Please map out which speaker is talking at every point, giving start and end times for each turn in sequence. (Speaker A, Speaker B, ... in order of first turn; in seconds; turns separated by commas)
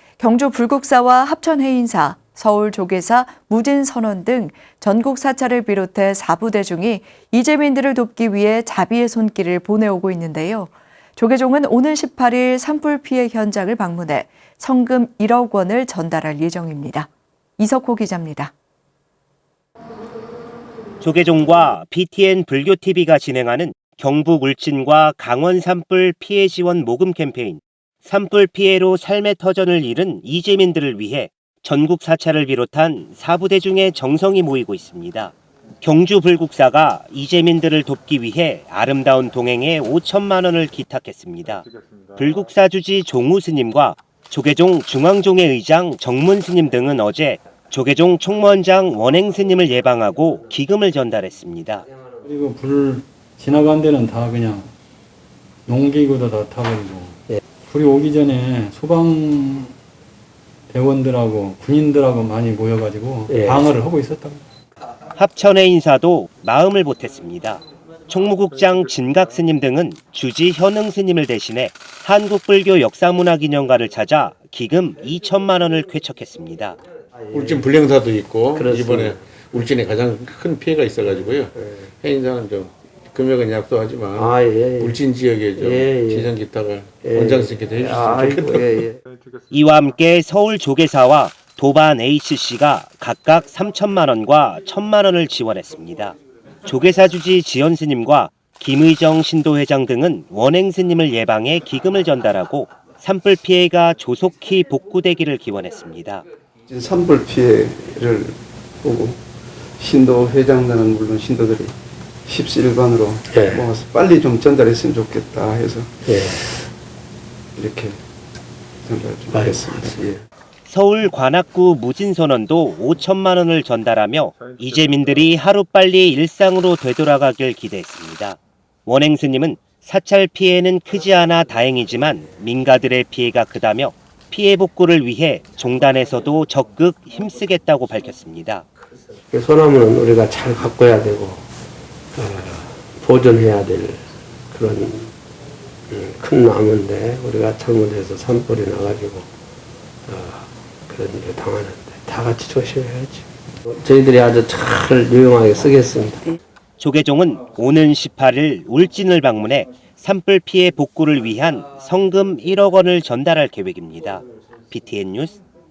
Speaker A: 0.2-18.5, Speaker B: 21.0-41.6, Speaker B: 42.2-51.9, Speaker C: 52.2-54.7, Speaker C: 55.6-59.8, Speaker C: 60.7-64.4, Speaker D: 63.3-63.7, Speaker B: 65.1-76.8, Speaker D: 77.3-77.6, Speaker E: 77.3-88.9, Speaker D: 78.5-79.5, Speaker D: 81.6-81.8, Speaker D: 84.1-85.0, Speaker D: 85.5-86.3, Speaker D: 87.0-89.0, Speaker B: 89.5-106.2, Speaker F: 106.7-109.2, Speaker F: 109.8-111.7, Speaker F: 112.2-116.6, Speaker D: 113.3-113.6, Speaker D: 116.0-116.4, Speaker F: 117.5-118.0, Speaker F: 118.8-120.2, Speaker D: 119.3-120.0, Speaker B: 120.7-138.6, Speaker D: 139.3-141.4, Speaker D: 142.1-145.1, Speaker D: 145.9-149.3, Speaker D: 150.1-156.3, Speaker B: 156.8-165.4